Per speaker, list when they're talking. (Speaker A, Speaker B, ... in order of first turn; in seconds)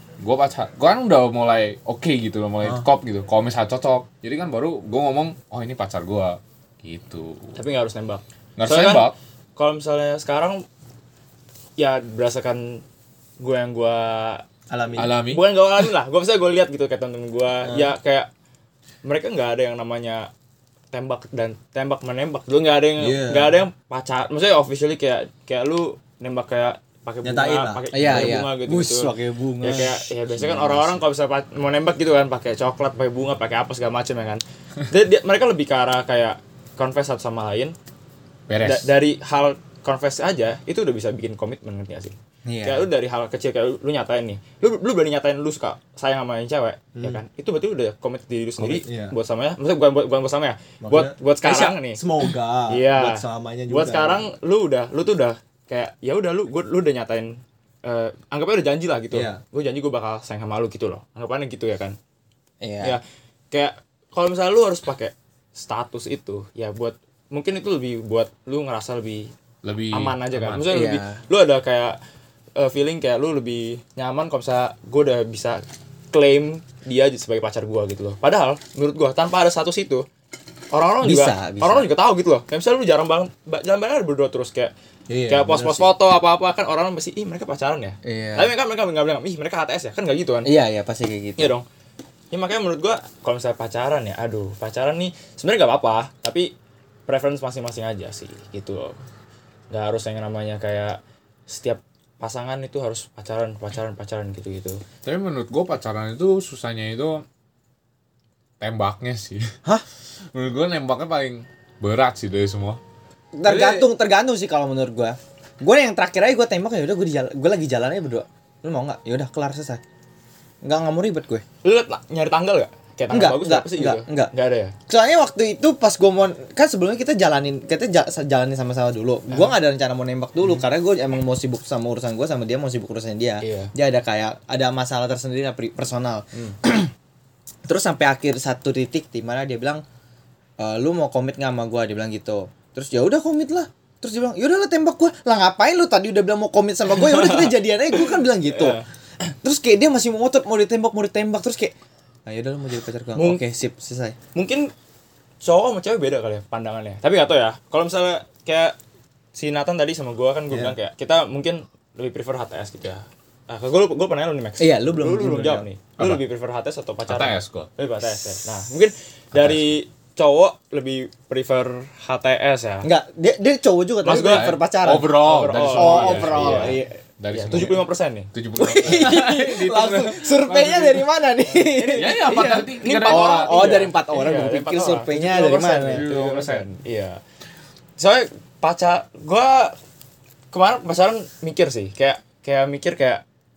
Speaker A: 0.2-7.5, 8.6-9.1, 14.9-15.4, 30.5-30.8, 38.5-38.9, 69.6-70.7, 105.0-107.2, 108.6-109.5, 110.3-112.8, 167.1-167.7, 169.3-169.7, 174.1-180.9, 181.9-183.8, 185.8-186.6
Speaker B: 7.5-10.6, 11.8-12.8, 13.4-14.4, 15.2-18.3, 19.0-20.3, 20.9-37.8, 38.6-52.0, 52.7-62.0, 62.8-69.3, 69.9-72.0, 72.5-80.0, 80.7-84.7, 85.3-90.5, 91.4-91.6, 92.3-96.5, 97.1-99.0, 99.7-104.8, 121.6-124.7, 133.4-133.7, 146.9-147.5, 148.5-148.8, 153.2-153.4, 154.3-154.7, 155.4-158.8, 159.3-172.9, 174.0-174.6, 175.1-176.8, 177.3-178.3, 181.5-187.2, 188.0-189.8, 190.5-193.2
Speaker C: 14.7-15.2, 17.6-17.9, 23.0-23.6, 27.2-28.4, 46.9-47.2, 48.6-49.1, 50.8-54.2, 59.1-59.4, 85.1-85.9, 113.5-113.8
Speaker D: 27.9-30.0, 42.4-42.8, 62.6-63.0, 70.7-71.2, 81.0-81.9, 88.0-88.5, 90.4-91.5, 113.3-119.8, 120.6-121.4, 123.1-124.3, 124.9-136.9, 137.7-139.8, 140.6-148.8, 149.4-151.7, 152.2-154.2, 164.6-165.6, 172.8-175.1, 175.7-176.9, 178.6-186.1